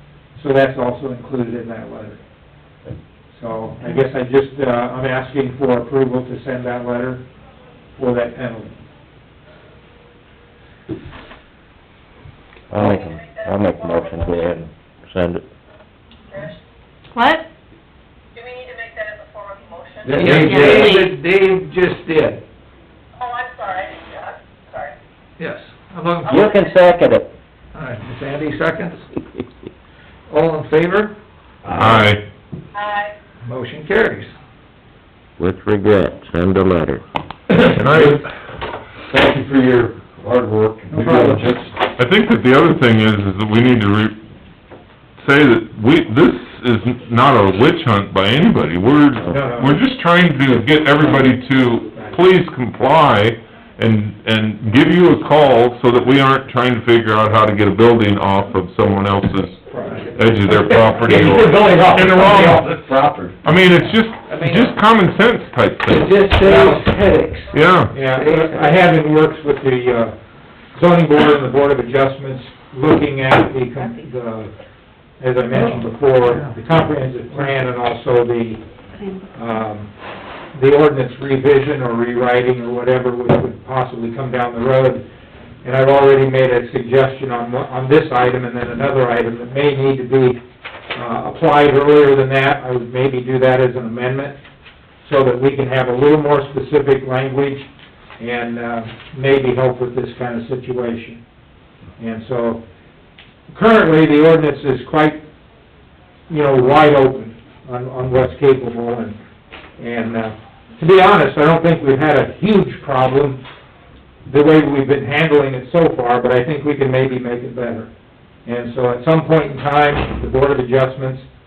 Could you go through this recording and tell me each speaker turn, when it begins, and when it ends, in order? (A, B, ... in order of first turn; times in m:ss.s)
0:00.3-0:02.2 A
0:03.3-0:07.2 A
0:08.0-0:08.7 A
0:12.7-0:15.4 B
0:12.8-0:14.6 C
0:17.1-0:17.4 D
0:18.4-0:20.4 C
0:20.0-0:21.0 E
0:20.2-0:22.4 F
0:20.3-0:21.2 D
0:23.2-0:24.9 C
0:25.4-0:26.4 F
0:26.2-0:26.7 C
0:26.3-0:27.3 B
0:27.7-0:29.0 F
0:30.3-0:31.1 F
0:31.6-0:32.1 E
0:31.7-0:32.2 G
0:32.8-0:33.1 C
0:33.4-0:34.3 F
0:35.4-0:37.0 B
0:37.5-0:38.2 E
0:37.7-0:38.2 G
0:39.1-0:41.7 E
0:40.9-0:41.4 A
0:42.0-0:44.2 G
0:45.2-1:02.8 G
0:49.2-0:49.8 A
0:51.0-0:51.3 A
0:51.9-0:52.2 A
0:59.7-1:00.1 A
1:00.4-1:03.4 E
1:03.4-1:06.2 G
1:04.2-1:04.8 F
1:05.9-1:08.8 F
1:06.4-1:06.8 A
1:07.5-1:08.0 G
1:07.9-1:10.2 A
1:10.7-1:14.5 A
1:15.2-1:18.6 A
1:15.5-1:16.6 F
1:17.3-1:17.5 F
1:18.9-1:19.6 D
1:19.3-1:19.9 A
1:20.5-1:25.0 A
1:25.6-1:30.4 A
1:30.9-1:34.4 A
1:35.0-1:37.7 A
1:38.2-1:41.2 A
1:42.0-1:42.6 A
1:43.5-1:45.2 A
1:46.3-1:49.2 A
1:49.8-1:53.4 A
1:54.3-1:57.9 A
1:58.4-2:01.3 A